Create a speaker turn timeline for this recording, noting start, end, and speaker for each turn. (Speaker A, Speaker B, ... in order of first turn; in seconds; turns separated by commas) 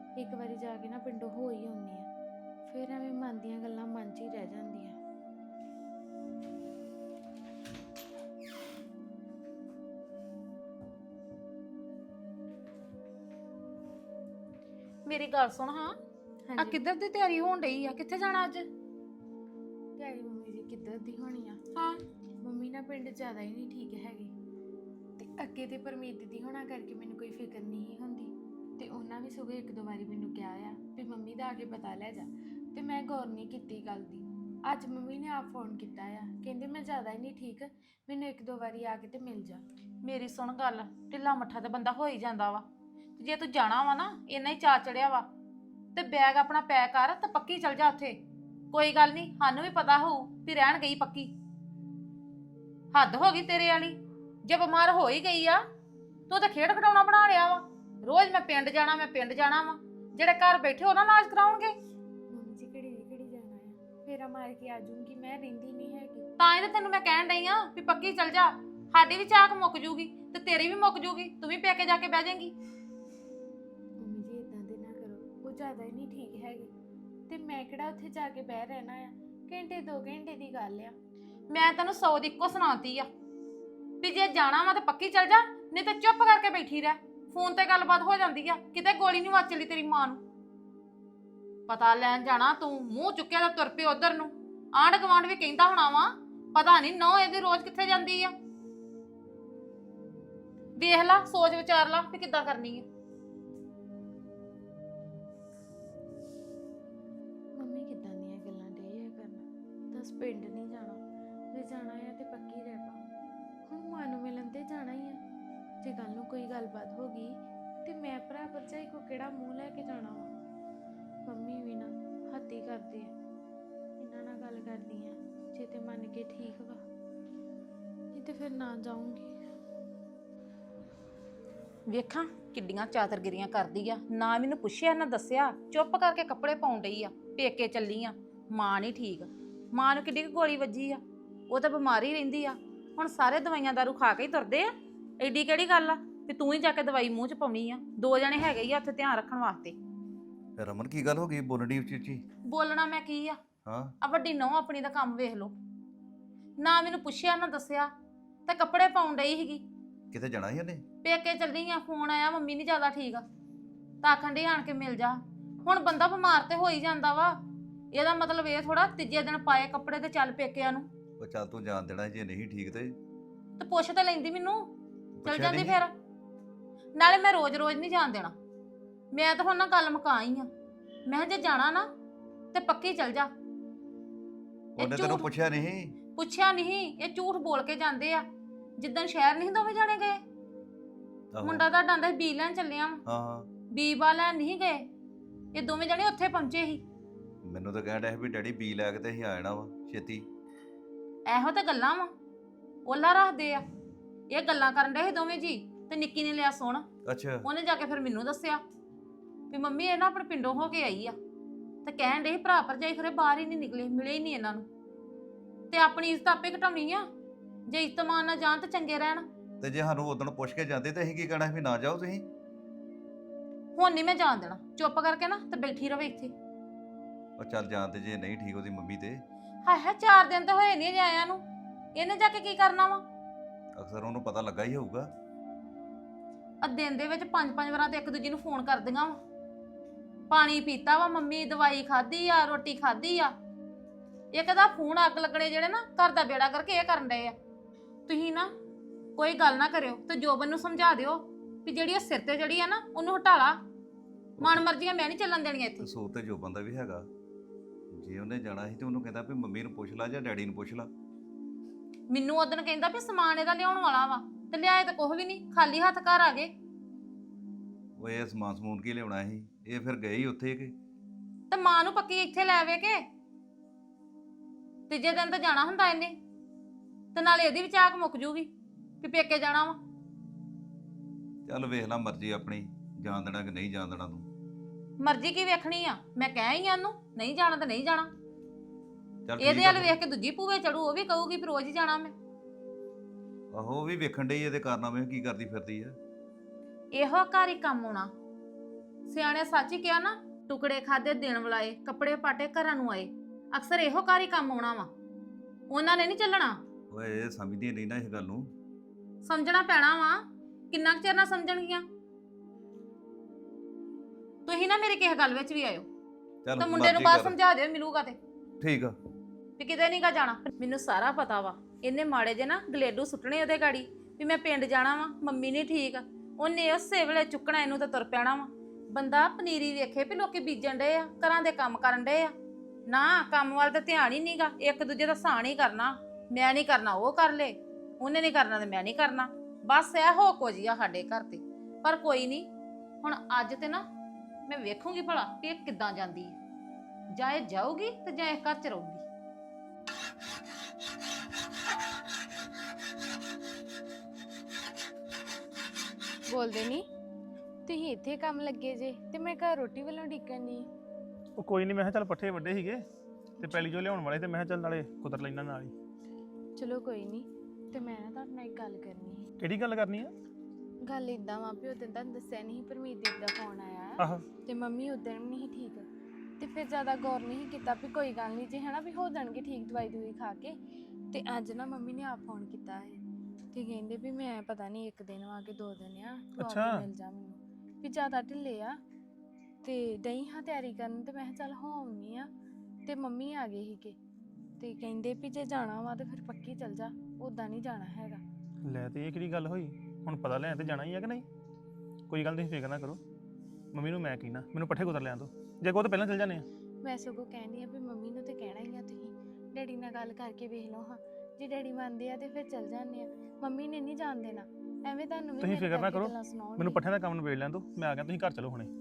Speaker A: 0.2-2.1, Speaker A: 2.7-5.0, Speaker B: 15.1-15.9, Speaker A: 16.5-16.8, Speaker B: 16.6-18.7, Speaker A: 20.0-21.6, Speaker B: 21.8-22.0, Speaker A: 22.4-24.3, Speaker A: 25.2-39.6, Speaker B: 40.0-42.6, Speaker B: 43.2-45.3, Speaker B: 46.0-48.2, Speaker B: 48.7-51.3, Speaker B: 52.9-55.6, Speaker B: 56.3-61.7, Speaker A: 62.3-66.3, Speaker B: 66.4-72.5, Speaker A: 74.0-76.7, Speaker A: 77.3-81.0, Speaker B: 81.5-83.1, Speaker B: 84.0-90.2, Speaker B: 91.7-98.3, Speaker B: 100.8-102.8, Speaker A: 107.6-111.0, Speaker A: 111.5-113.0, Speaker A: 113.7-115.2, Speaker A: 115.8-117.3, Speaker A: 117.8-120.3, Speaker A: 121.3-123.1, Speaker A: 124.0-126.8, Speaker A: 128.1-129.3, Speaker B: 131.9-149.8, Speaker C: 150.6-152.2, Speaker B: 152.5-153.4, Speaker C: 153.7-153.9, Speaker B: 154.0-155.5, Speaker B: 156.6-157.9, Speaker B: 158.5-159.6, Speaker C: 160.1-160.8, Speaker B: 161.0-163.2, Speaker B: 164.0-167.4, Speaker B: 167.9-170.9, Speaker C: 171.2-173.0, Speaker B: 173.6-174.7, Speaker C: 175.2-175.8, Speaker B: 175.2-175.9, Speaker B: 177.0-178.3, Speaker B: 179.1-180.5, Speaker B: 181.1-181.9, Speaker B: 182.5-183.3, Speaker C: 184.8-185.9, Speaker B: 184.8-185.3, Speaker B: 186.2-188.2, Speaker B: 188.8-190.2, Speaker C: 191.3-191.7, Speaker B: 191.4-193.0, Speaker C: 193.1-193.5, Speaker B: 193.7-194.8, Speaker B: 195.5-196.8, Speaker C: 197.4-200.3, Speaker B: 201.3-202.1, Speaker B: 202.9-203.6, Speaker B: 204.3-206.9, Speaker C: 207.1-207.4, Speaker B: 207.4-208.6, Speaker B: 209.5-211.2, Speaker B: 211.8-214.7, Speaker B: 215.7-217.1, Speaker B: 217.7-219.3, Speaker C: 219.6-222.3, Speaker B: 223.8-226.3, Speaker C: 227.4-229.2, Speaker B: 229.7-231.4, Speaker B: 231.9-233.0, Speaker C: 233.8-235.1, Speaker B: 236.6-239.2, Speaker B: 240.3-243.3, Speaker B: 244.3-247.3, Speaker B: 248.1-248.5, Speaker B: 249.2-253.6, Speaker C: 254.4-254.6, Speaker B: 254.4-255.9, Speaker C: 255.8-257.1, Speaker C: 257.9-260.9, Speaker B: 262.1-266.5, Speaker C: 268.0-270.8, Speaker B: 271.5-273.0, Speaker B: 274.9-276.2, Speaker B: 277.1-278.5, Speaker B: 279.0-279.8, Speaker C: 281.5-284.3, Speaker B: 285.0-288.1, Speaker C: 289.3-290.0, Speaker B: 289.4-292.1, Speaker C: 293.5-296.0, Speaker B: 296.9-298.1, Speaker B: 299.1-304.9, Speaker B: 305.7-306.6, Speaker C: 306.9-308.5, Speaker B: 309.2-311.9, Speaker B: 314.5-315.9, Speaker C: 316.4-317.4, Speaker B: 316.6-318.2, Speaker C: 318.6-318.9, Speaker B: 319.6-332.3, Speaker B: 332.9-342.5, Speaker B: 343.0-343.8, Speaker B: 344.5-346.4, Speaker B: 347.1-349.0, Speaker A: 356.3-356.9, Speaker A: 357.7-360.7, Speaker D: 361.4-362.9, Speaker D: 363.4-365.7, Speaker A: 363.4-363.8, Speaker A: 366.6-369.3, Speaker D: 369.4-370.1, Speaker A: 370.9-375.9, Speaker A: 376.4-380.6, Speaker A: 381.1-383.0, Speaker A: 383.5-388.8, Speaker D: 386.4-386.9, Speaker A: 389.6-392.3, Speaker A: 392.9-394.0, Speaker A: 394.6-398.2, Speaker D: 398.7-401.2, Speaker D: 402.1-403.0, Speaker D: 403.7-406.5, Speaker A: 406.8-416.9, Speaker D: 415.4-418.7